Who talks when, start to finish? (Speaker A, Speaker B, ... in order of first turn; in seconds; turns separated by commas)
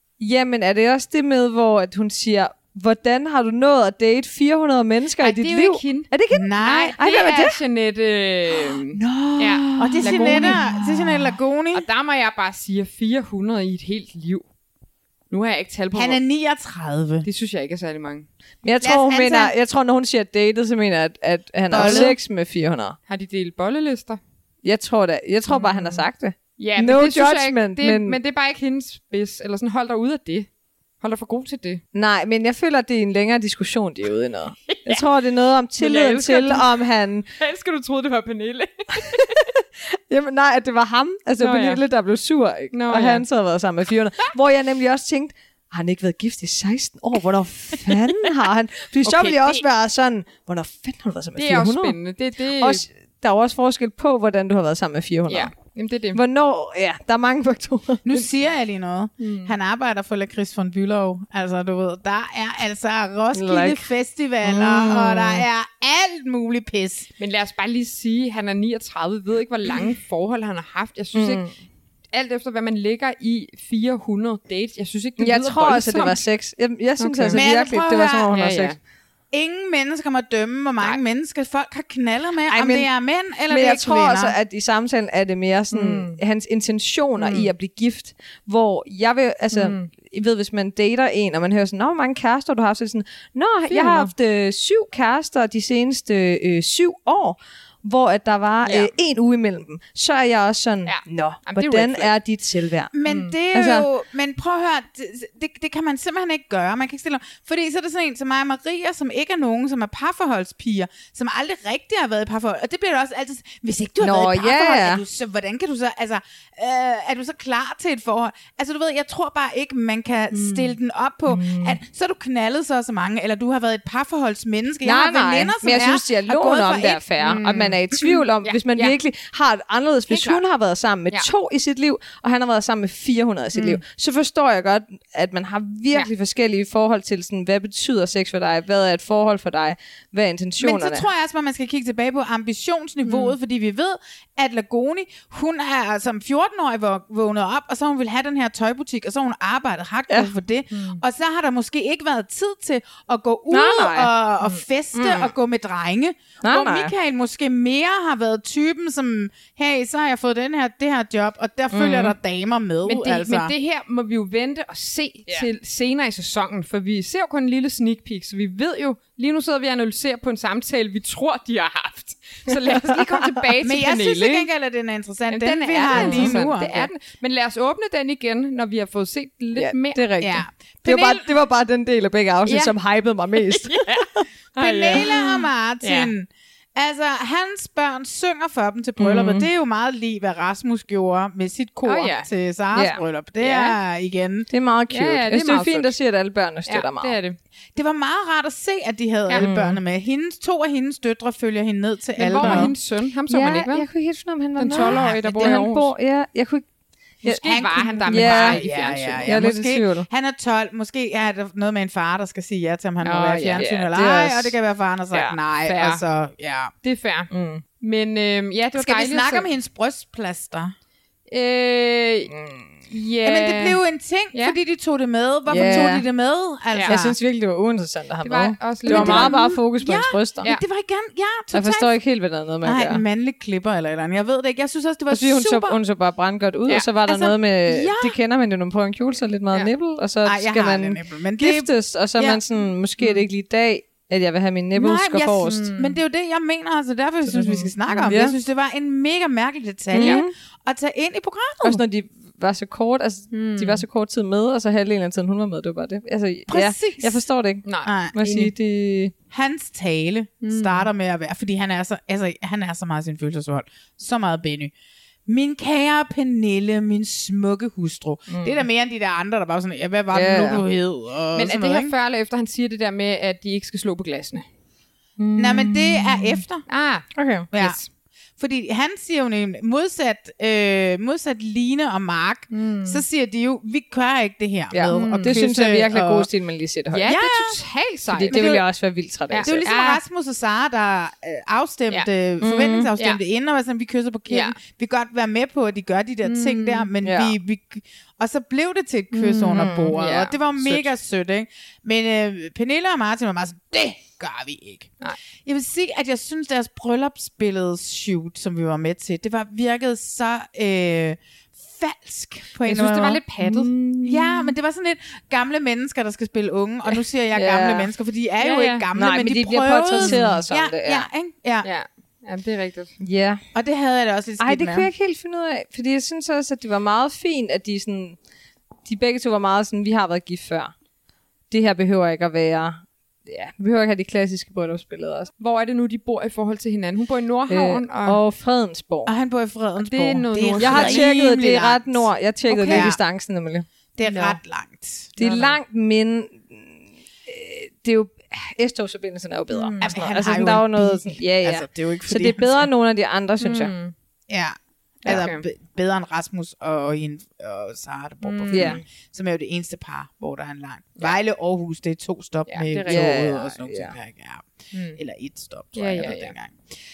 Speaker A: 0.2-7.6, Speaker B: 5.2-6.1, Speaker C: 6.3-7.0, Speaker B: 6.6-10.6, Speaker A: 8.9-11.3, Speaker C: 9.8-11.9, Speaker B: 11.7-14.4, Speaker B: 15.3-16.2, Speaker C: 15.9-17.3, Speaker B: 17.2-18.3, Speaker A: 18.6-22.9, Speaker C: 18.8-19.5, Speaker C: 21.7-22.1, Speaker B: 21.7-22.2, Speaker B: 23.1-24.2, Speaker A: 24.6-28.2, Speaker B: 25.5-26.0, Speaker B: 26.6-30.5, Speaker B: 31.0-31.8, Speaker A: 31.9-37.2, Speaker B: 34.7-35.0, Speaker B: 35.8-36.6, Speaker B: 37.4-39.5, Speaker A: 40.1-52.0, Speaker B: 41.4-41.8, Speaker B: 42.7-43.2, Speaker B: 49.0-49.6, Speaker B: 51.4-52.8, Speaker A: 52.6-55.5, Speaker B: 55.3-56.2, Speaker A: 56.1-58.0, Speaker C: 58.0-67.1, Speaker B: 59.2-59.5, Speaker A: 63.3-63.9, Speaker A: 64.4-65.5, Speaker B: 67.2-71.5, Speaker A: 71.1-71.5, Speaker B: 72.1-76.2, Speaker A: 75.2-78.8, Speaker B: 77.0-77.4, Speaker C: 77.3-78.3, Speaker B: 78.3-78.8, Speaker C: 79.3-84.3, Speaker A: 82.5-82.9, Speaker A: 83.5-102.9, Speaker B: 85.7-86.2, Speaker B: 87.2-87.5, Speaker B: 89.5-89.9, Speaker B: 93.7-94.1, Speaker B: 98.6-98.9, Speaker B: 100.8-102.1, Speaker C: 102.9-127.0, Speaker B: 103.1-103.3, Speaker A: 103.5-103.8, Speaker A: 114.0-115.0, Speaker A: 121.3-121.8, Speaker A: 124.8-141.0, Speaker B: 127.2-127.8, Speaker B: 128.4-128.9, Speaker C: 140.6-163.5, Speaker B: 143.1-143.3, Speaker B: 150.7-151.0, Speaker A: 153.5-154.1, Speaker A: 154.9-155.2, Speaker A: 156.4-156.9, Speaker A: 161.7-162.1, Speaker B: 162.8-174.5, Speaker A: 172.7-173.3, Speaker C: 173.6-176.9, Speaker B: 175.3-180.0, Speaker A: 175.9-176.4, Speaker A: 179.6-184.0, Speaker C: 180.2-181.3, Speaker B: 182.4-182.7, Speaker B: 183.5-186.1, Speaker C: 184.6-194.5, Speaker A: 189.0-189.5, Speaker B: 191.8-192.3, Speaker A: 192.7-193.0, Speaker B: 193.4-193.8, Speaker A: 194.5-197.2, Speaker B: 194.9-195.9, Speaker B: 196.7-197.4, Speaker C: 197.7-202.7, Speaker A: 199.4-199.8, Speaker B: 202.2-203.9, Speaker A: 202.4-202.7, Speaker A: 203.3-206.6, Speaker B: 204.6-205.9, Speaker C: 204.7-205.7, Speaker A: 207.2-208.7, Speaker B: 207.2-209.3, Speaker C: 207.2-216.7, Speaker A: 209.2-210.1, Speaker B: 213.0-213.6, Speaker A: 213.5-214.5, Speaker A: 215.1-215.4, Speaker B: 215.7-216.0, Speaker B: 216.8-219.5, Speaker A: 217.3-217.6, Speaker C: 218.7-220.7, Speaker B: 221.3-222.3, Speaker A: 222.3-222.7, Speaker B: 222.9-223.8, Speaker C: 223.2-227.1, Speaker A: 225.5-226.0, Speaker B: 226.7-227.0, Speaker A: 226.9-230.5, Speaker B: 228.2-229.5, Speaker C: 228.8-231.9, Speaker A: 231.5-233.0, Speaker C: 232.6-235.8, Speaker A: 235.1-245.6, Speaker C: 237.0-238.2, Speaker C: 240.2-242.4, Speaker C: 244.7-251.8, Speaker B: 245.5-246.0, Speaker A: 247.3-248.3, Speaker A: 249.9-250.3, Speaker A: 251.6-259.1, Speaker B: 253.3-253.8, Speaker C: 256.5-257.2, Speaker B: 257.6-258.5, Speaker C: 257.8-258.1, Speaker C: 259.3-264.7, Speaker B: 260.4-260.9, Speaker C: 265.3-271.9, Speaker A: 268.3-268.6, Speaker A: 270.1-270.6, Speaker B: 271.3-274.4, Speaker A: 275.2-276.4, Speaker C: 275.4-276.7, Speaker B: 276.7-277.8, Speaker A: 277.1-277.5, Speaker C: 277.5-277.8, Speaker C: 278.4-286.3, Speaker B: 282.5-283.0, Speaker A: 284.7-287.1, Speaker B: 284.9-285.3, Speaker B: 286.9-288.4, Speaker C: 287.0-287.6, Speaker A: 288.1-289.5, Speaker C: 288.3-288.6, Speaker B: 289.3-290.0, Speaker C: 289.4-313.2, Speaker A: 292.4-292.9, Speaker B: 294.3-294.6, Speaker B: 296.2-296.9, Speaker A: 297.0-297.3, Speaker B: 299.1-300.9, Speaker A: 299.5-299.9, Speaker B: 312.6-313.7, Speaker A: 313.4-314.4, Speaker C: 314.0-321.7, Speaker A: 317.3-317.9, Speaker B: 318.4-318.9, Speaker A: 318.9-321.1, Speaker B: 319.9-320.4, Speaker B: 321.6-322.9, Speaker A: 323.0-323.4, Speaker C: 323.5-324.9, Speaker A: 324.4-328.2, Speaker A: 328.8-330.7, Speaker A: 331.5-335.3, Speaker B: 335.4-338.2, Speaker A: 337.5-339.1, Speaker C: 339.1-343.0, Speaker B: 339.8-341.2, Speaker A: 340.6-343.6, Speaker C: 344.0-345.1, Speaker B: 344.0-344.4, Speaker A: 345.2-353.7, Speaker B: 345.2-345.6, Speaker B: 349.5-349.8, Speaker C: 349.8-352.7, Speaker B: 353.4-353.9, Speaker C: 354.3-366.7, Speaker B: 355.0-355.4, Speaker B: 358.2-358.8, Speaker A: 358.5-358.8, Speaker B: 362.5-363.0, Speaker A: 362.7-363.9, Speaker B: 364.7-365.0, Speaker B: 365.7-366.3